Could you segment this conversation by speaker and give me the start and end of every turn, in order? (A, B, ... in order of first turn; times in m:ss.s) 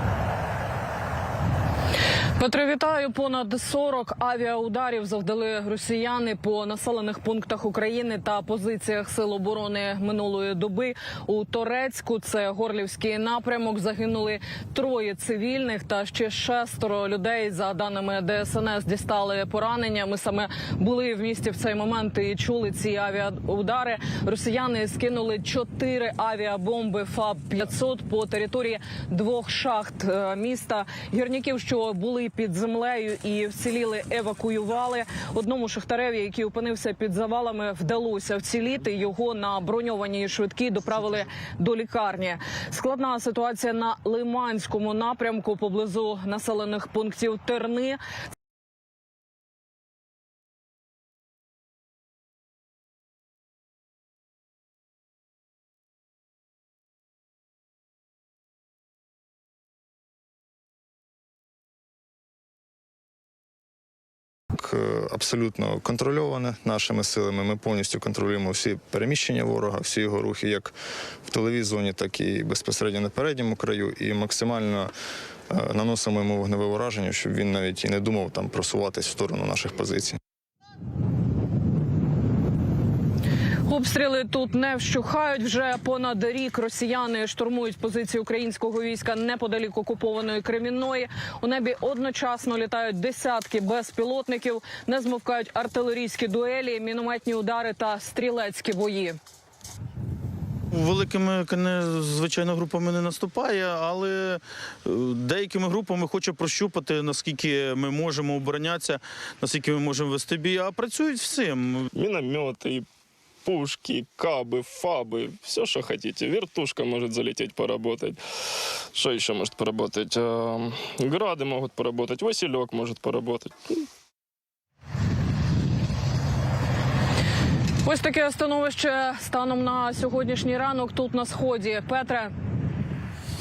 0:02.4-0:48.0 A
1:04.5-1:14.9 B
1:15.5-1:20.2 B
1:23.7-1:39.2 A
1:40.7-1:51.9 C
1:51.9-1:52.9 D
1:53.4-2:03.9 D
2:07.8-2:12.3 A